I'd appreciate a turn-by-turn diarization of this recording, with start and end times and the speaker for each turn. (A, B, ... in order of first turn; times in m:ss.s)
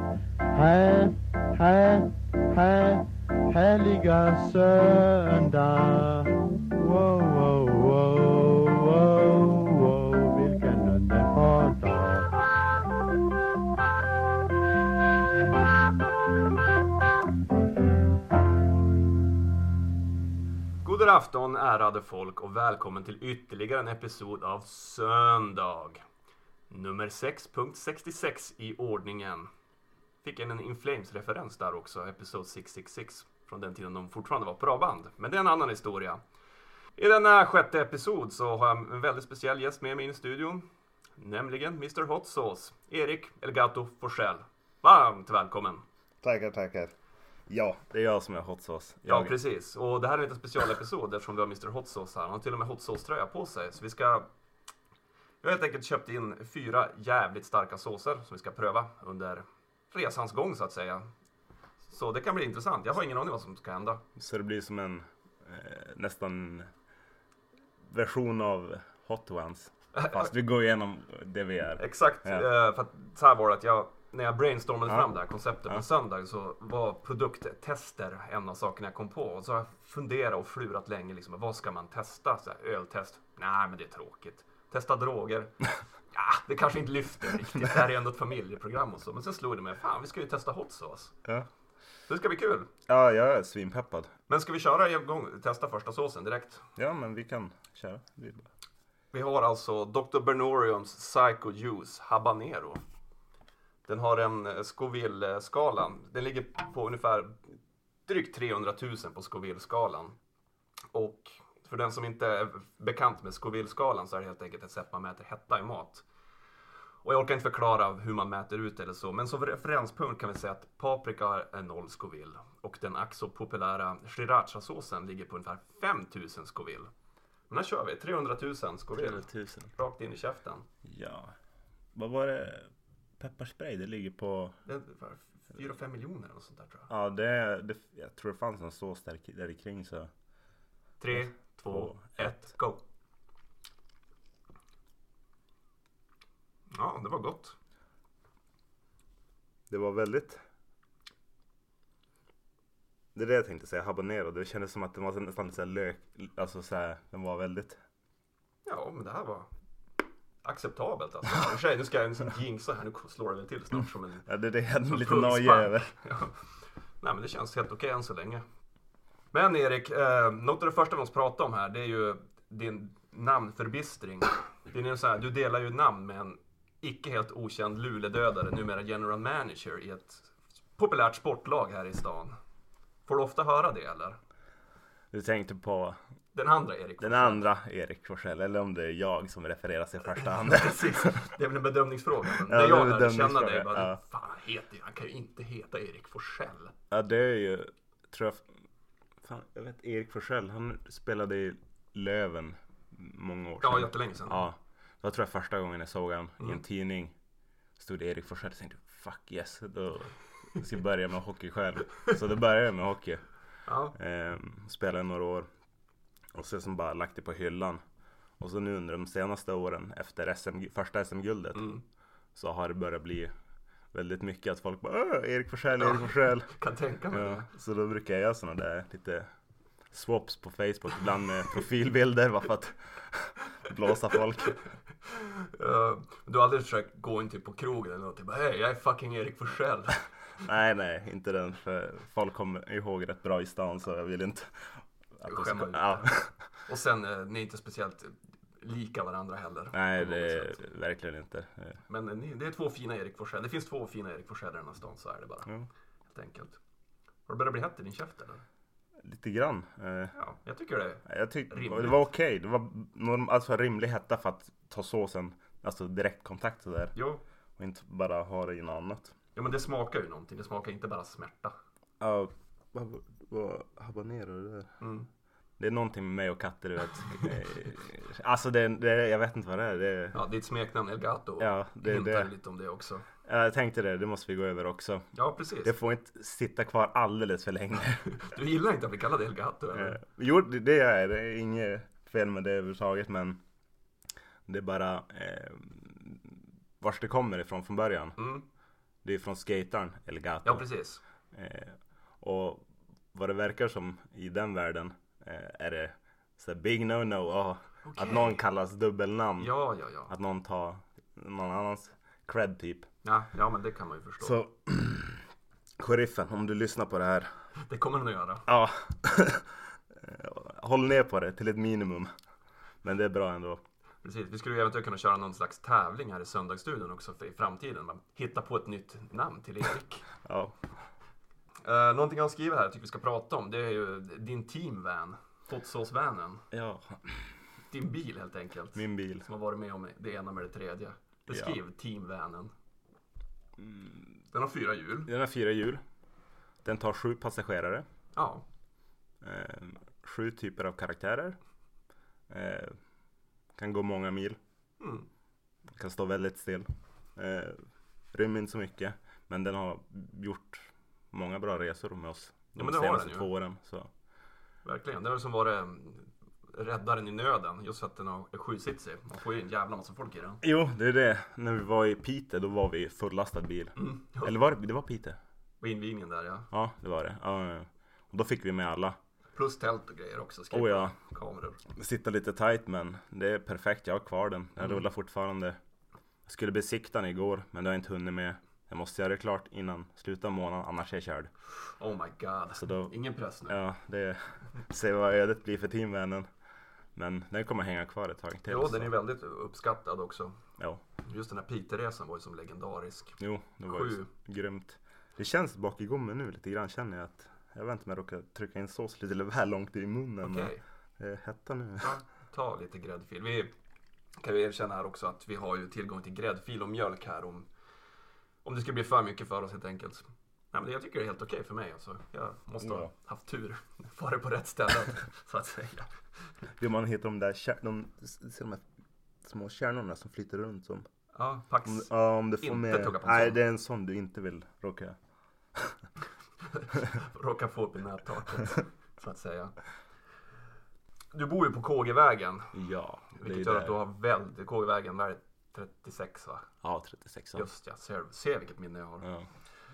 0:00.5-0:12.3 A
0:20.8-0:26.0 B
0:26.7-0:29.5 B
0:30.2-0:36.2 B
0:37.0-0:40.6 B
0:41.2-0:45.8 B
0:46.2-0:46.9 C
0:47.5-0:49.3 C
0:49.1-0:54.3 B
0:55.4-1:01.1 B
1:01.9-1:04.0 B
1:04.2-1:06.7 C
1:07.8-1:12.4 C
1:09.9-1:10.3 B
1:11.8-1:31.1 B
1:32.1-1:32.7 B
1:32.9-1:34.1 C
1:34.3-1:36.6 B
1:36.8-1:38.5 C
1:39.1-1:42.8 B
1:43.9-1:47.6 B
1:48.1-1:50.2 B
1:50.9-1:56.0 B
1:57.0-2:06.9 B
2:07.5-2:09.2 B
2:09.0-2:09.7 C
2:09.8-2:10.6 B
2:10.8-2:11.3 C
2:11.9-2:14.5 C
2:14.6-2:16.9 B
2:16.9-2:20.1 C
2:21.0-2:22.8 B
2:21.1-2:22.4 C
2:26.7-2:27.5 B
2:29.7-2:30.4 C
2:33.1-2:37.8 C
2:38.6-2:39.5 B
2:40.4-2:44.2 B
2:44.2-2:45.9 C
2:44.8-2:46.4 B
2:47.0-2:48.4 B
2:49.3-3:02.3 B
3:03.0-3:04.2 B
3:05.1-3:06.0 C
3:06.3-3:07.4 B
3:07.0-3:11.3 C
3:10.1-3:16.7 B
3:12.4-3:14.0 C
3:16.9-3:18.5 C
3:19.2-3:27.1 C
3:23.6-3:24.4 B
3:27.8-3:33.2 C
3:33.6-3:33.9 B
3:33.9-3:35.5 C
3:36.3-3:37.8 C
3:38.4-3:41.7 C
3:41.5-3:41.8 B
3:42.3-3:43.3 C
3:43.9-3:46.5 C
3:45.8-3:47.5 B
3:47.1-3:49.3 C
3:49.9-3:54.6 C
3:55.0-4:00.0 B
4:00.4-4:06.4 C
4:05.3-4:06.1 B
4:06.7-4:10.6 B
4:09.7-4:11.8 C
4:11.9-4:15.5 B
4:16.1-4:16.6 B
4:17.3-4:18.4 B
4:19.0-4:20.1 C
4:20.1-4:22.1 B
4:21.0-4:26.9 C
4:26.9-4:27.2 B
4:27.6-4:29.1 C
4:29.3-4:31.5 B
4:32.0-4:34.8 C
4:34.8-4:35.1 B
4:35.6-4:40.2 C
4:40.1-4:43.0 B
4:41.4-4:42.3 C
4:43.2-4:45.1 C
4:45.1-4:45.7 B
4:45.6-4:48.1 C
4:48.1-4:50.0 B
4:49.7-4:53.4 C
4:54.5-4:58.2 C
4:58.2-4:58.4 B
4:59.0-5:00.6 C
5:00.4-5:01.0 B
5:01.3-5:09.5 C
5:07.8-5:08.4 B
5:09.4-5:10.1 B
5:10.1-5:12.9 C
5:13.0-5:14.4 B
5:14.2-5:15.2 C
5:15.8-5:17.3 C
5:17.6-5:18.4 B
5:18.5-5:22.1 C
5:22.8-5:23.6 C
5:24.0-5:30.1 B
5:30.2-5:30.6 C
5:31.6-5:36.4 B
5:36.5-5:37.4 C
5:37.7-5:42.5 B
5:38.7-5:39.3 C
5:41.3-5:41.6 C
5:43.6-5:44.2 C
5:44.3-5:45.1 B
5:45.1-5:45.8 C
5:46.6-5:47.8 C
5:48.2-5:48.4 B
5:49.2-5:51.4 C
5:52.3-5:52.8 C
5:53.6-5:54.4 C
5:54.8-5:55.1 B
5:55.8-6:03.9 C
6:02.6-6:03.3 B
6:04.6-6:10.4 B
6:10.4-6:15.2 C
6:13.8-6:14.3 B
6:15.6-6:16.5 B
6:16.5-6:19.0 C
6:19.3-6:21.6 B
6:20.5-6:20.9 C
6:21.7-6:25.6 C
6:26.3-6:31.3 C
6:31.8-6:33.6 B
6:32.6-6:32.9 C
6:33.5-6:36.3 C
6:37.0-6:38.9 C
6:38.5-6:40.4 B
6:41.0-6:43.2 B
6:43.2-6:51.9 C
6:43.7-6:44.1 B
6:50.2-6:50.6 B
6:51.8-6:53.5 B
6:54.2-6:57.5 B
6:58.4-7:05.9 B
7:02.6-7:02.9 C
7:06.6-7:08.6 C
7:09.2-7:10.9 C
7:11.1-7:11.9 B
7:11.6-7:15.0 C
7:12.4-7:13.4 B
7:16.5-7:19.5 B
7:21.1-7:22.5 B
7:22.5-7:23.8 C
7:23.2-7:26.5 B
7:26.6-7:27.5 C
7:27.4-7:29.0 B
7:29.0-7:29.3 C